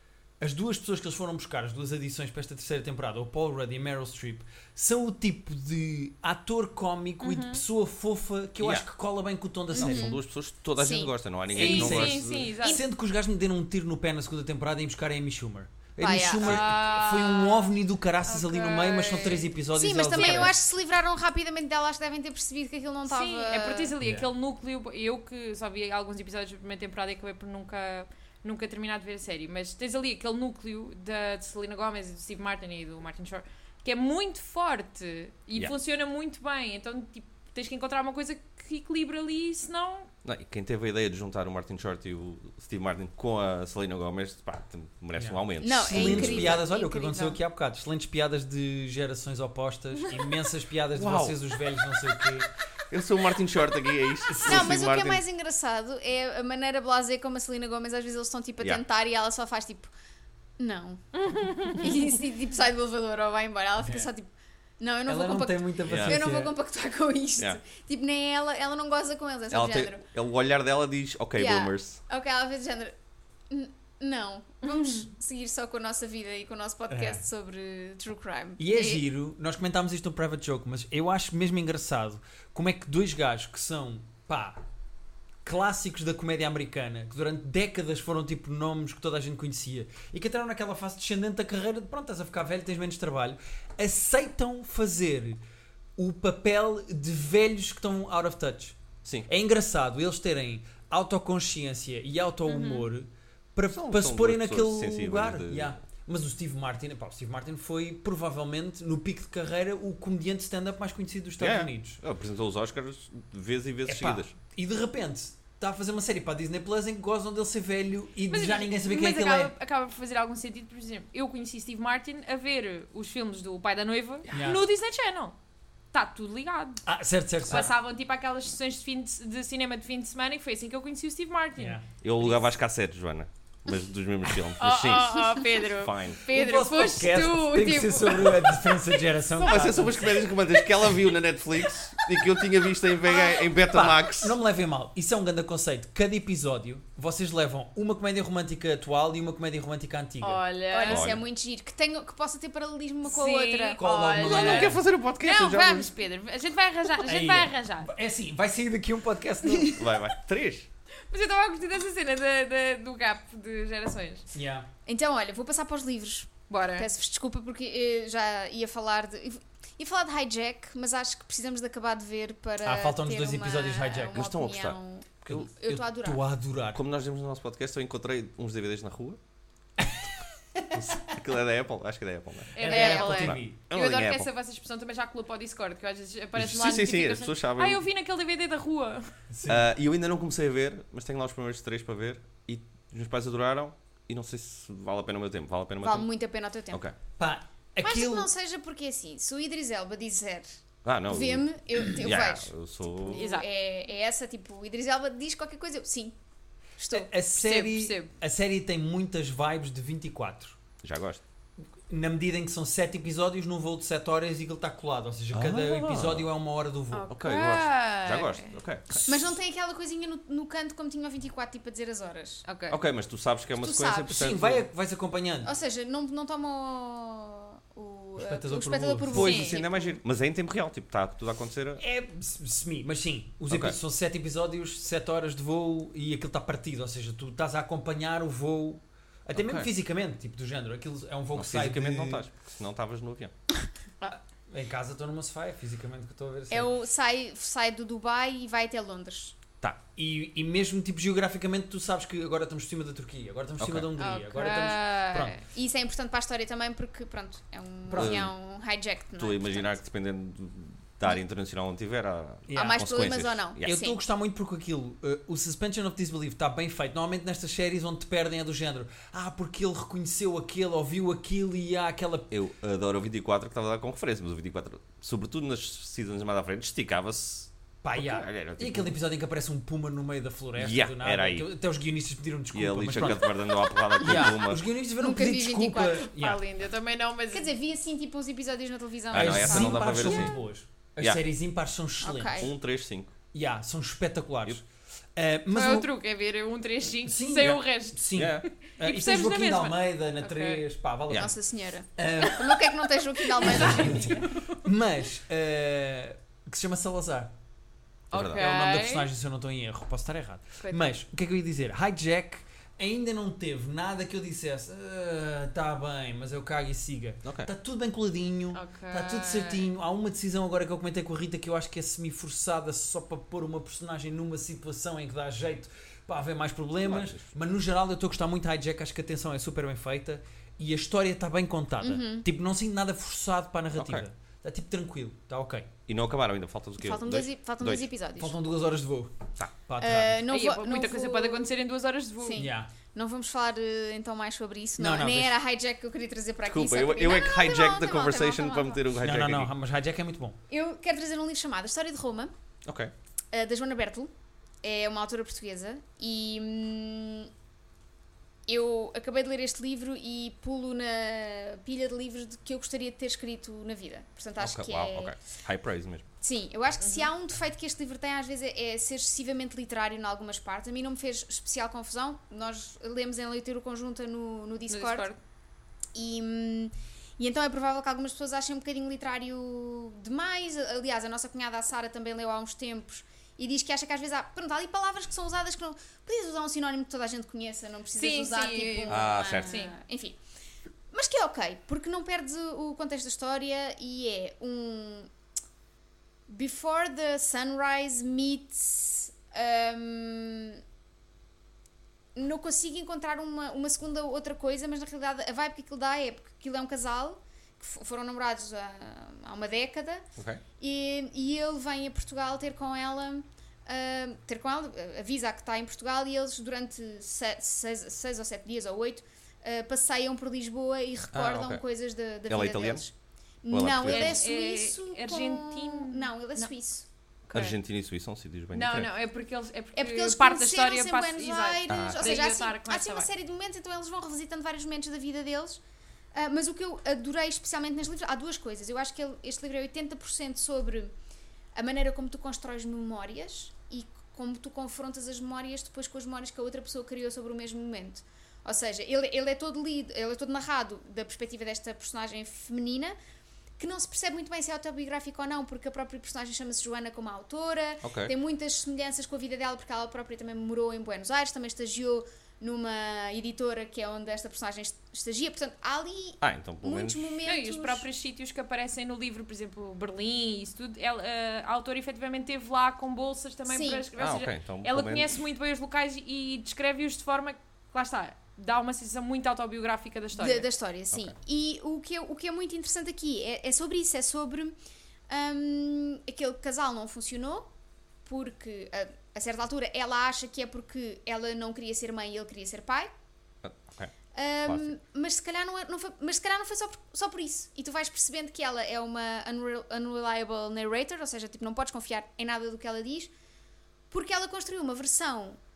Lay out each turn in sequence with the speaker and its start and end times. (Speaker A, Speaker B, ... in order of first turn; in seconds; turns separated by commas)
Speaker A: 0.4-10.2, Speaker B: 7.2-7.6, Speaker C: 8.6-8.9, Speaker D: 9.7-10.2, Speaker C: 9.7-12.5, Speaker D: 10.8-11.1, Speaker B: 11.5-12.8, Speaker A: 11.5-20.5, Speaker D: 16.0-16.7, Speaker B: 16.4-17.7, Speaker B: 18.2-19.5, Speaker D: 19.7-23.9, Speaker B: 20.1-20.5, Speaker B: 23.1-40.1, Speaker A: 24.0-24.3, Speaker C: 40.2-46.6, Speaker A: 45.1-52.5, Speaker D: 45.6-47.4, Speaker C: 50.9-51.4, Speaker C: 52.9-55.2, Speaker A: 54.3-54.7, Speaker D: 54.4-59.9, Speaker D: 60.6-61.0, Speaker B: 61.1-62.0, Speaker D: 61.7-64.3, Speaker A: 63.8-64.1, Speaker D: 64.8-70.0, Speaker A: 65.0-66.5, Speaker C: 65.8-66.2, Speaker C: 69.5-72.0, Speaker D: 71.3-73.0, Speaker D: 73.5-79.1, Speaker B: 74.6-75.1, Speaker A: 76.9-77.2, Speaker A: 78.6-84.6, Speaker A: 85.4-95.4, Speaker A: 96.0-112.0, Speaker B: 102.5-102.9, Speaker C: 103.7-105.8, Speaker C: 111.4-114.3, Speaker A: 113.8-119.5, Speaker B: 118.3-125.3, Speaker A: 124.3-124.7, Speaker B: 125.9-126.8, Speaker A: 126.8-127.7, Speaker B: 127.5-132.4, Speaker A: 131.6-131.8, Speaker C: 132.0-136.2, Speaker B: 134.6-139.0, Speaker A: 136.3-140.2, Speaker C: 139.4-144.4, Speaker B: 139.6-140.3, Speaker D: 143.0-143.5, Speaker A: 143.7-150.4, Speaker B: 150.2-151.1, Speaker D: 150.7-153.8, Speaker C: 150.8-151.2, Speaker B: 153.1-157.9, Speaker A: 153.8-154.8, Speaker C: 154.2-155.9, Speaker A: 157.0-159.9, Speaker C: 159.7-160.7, Speaker B: 161.1-164.3, Speaker A: 164.3-164.7, Speaker D: 164.8-176.2, Speaker B: 166.5-166.9, Speaker A: 172.6-174.2, Speaker C: 174.1-174.8, Speaker A: 175.2-176.8, Speaker C: 176.7-179.2, Speaker A: 179.8-180.0, Speaker A: 180.6-181.1, Speaker C: 180.7-184.3, Speaker B: 182.5-189.1, Speaker A: 182.6-183.6, Speaker C: 186.3-187.8, Speaker A: 189.3-189.7, Speaker C: 189.5-196.1, Speaker D: 195.8-196.8, Speaker A: 197.2-198.3, Speaker D: 197.8-206.2, Speaker C: 200.8-203.3, Speaker B: 203.1-203.5, Speaker D: 206.8-207.1, Speaker A: 206.9-210.6, Speaker B: 207.3-208.1, Speaker C: 210.8-211.2, Speaker A: 211.9-217.1, Speaker C: 215.3-216.3, Speaker B: 216.9-218.6, Speaker C: 217.1-219.2, Speaker D: 219.1-222.4, Speaker B: 222.4-222.8, Speaker C: 222.7-224.6, Speaker D: 223.6-224.2, Speaker A: 224.0-225.5, Speaker D: 225.4-230.0, Speaker A: 228.2-229.4, Speaker C: 229.1-231.8, Speaker B: 229.1-229.6, Speaker A: 231.8-242.2, Speaker C: 233.5-233.8, Speaker C: 239.3-239.7, Speaker C: 241.3-243.3, Speaker A: 244.5-246.7, Speaker D: 246.5-249.4, Speaker A: 249.6-255.4, Speaker C: 253.6-253.9, Speaker D: 254.0-259.8, Speaker B: 254.3-255.2, Speaker A: 257.9-258.3, Speaker C: 257.9-258.3, Speaker C: 259.2-263.7, Speaker A: 262.5-262.8, Speaker D: 262.5-264.0, Speaker A: 263.6-272.3, Speaker C: 272.3-278.9, Speaker A: 277.8-283.3, Speaker C: 280.6-281.5, Speaker C: 282.5-284.6, Speaker A: 284.0-286.4, Speaker D: 285.0-286.1, Speaker B: 286.1-287.5, Speaker D: 287.3-290.3, Speaker C: 289.1-290.3, Speaker A: 289.1-292.5, Speaker D: 292.0-292.5, Speaker C: 292.4-293.1, Speaker A: 293.3-294.6, Speaker A: 295.1-295.9, Speaker B: 295.5-298.1, Speaker A: 297.1-301.3, Speaker C: 298.1-298.4, Speaker B: 298.6-300.6, Speaker D: 301.1-304.2, Speaker A: 302.0-302.5, Speaker B: 303.2-304.5, Speaker A: 303.4-307.3, Speaker C: 308.1-308.4, Speaker B: 308.1-309.1, Speaker A: 308.3-335.7, Speaker C: 317.2-317.5, Speaker B: 318.5-319.7, Speaker C: 326.8-327.2, Speaker D: 331.8-332.3, Speaker C: 333.8-334.1, Speaker C: 335.9-337.9, Speaker D: 336.8-338.3, Speaker A: 338.2-340.2, Speaker D: 339.8-341.5, Speaker B: 340.3-342.4, Speaker D: 342.2-348.8, Speaker A: 342.4-342.7, Speaker A: 344.8-345.4, Speaker C: 346.4-349.5, Speaker A: 349.0-350.4, Speaker D: 350.5-352.3, Speaker C: 352.6-352.9, Speaker D: 353.3-354.1, Speaker D: 354.6-357.3, Speaker D: 358.5-365.1, Speaker C: 364.4-366.1, Speaker D: 366.2-375.1, Speaker B: 366.8-367.1, Speaker B: 374.7-375.2, Speaker D: 375.9-390.2, Speaker B: 387.9-389.7, Speaker C: 388.9-389.6, Speaker D: 390.9-395.1, Speaker D: 396.3-400.6, Speaker D: 402.1-410.0, Speaker C: 410.2-410.4, Speaker D: 410.6-422.9, Speaker C: 421.1-421.6, Speaker C: 422.3-422.9, Speaker D: 423.4-426.8, Speaker C: 423.5-424.2, Speaker B: 423.8-426.5, Speaker B: 427.3-427.6, Speaker C: 427.3-428.9, Speaker B: 428.5-433.1, Speaker D: 429.7-435.6, Speaker C: 431.7-432.1, Speaker D: 436.1-440.9, Speaker D: 441.5-452.9, Speaker D: 453.6-467.9, Speaker C: 457.8-458.1, Speaker C: 466.2-467.1, Speaker B: 467.2-480.5, Speaker D: 473.4-473.9, Speaker C: 473.9-475.1, Speaker D: 480.2-484.6, Speaker D: 485.1-487.5, Speaker D: 488.0-492.9, Speaker C: 493.4-493.9, Speaker D: 494.1-503.1, Speaker C: 494.4-494.7, Speaker D: 503.9-505.4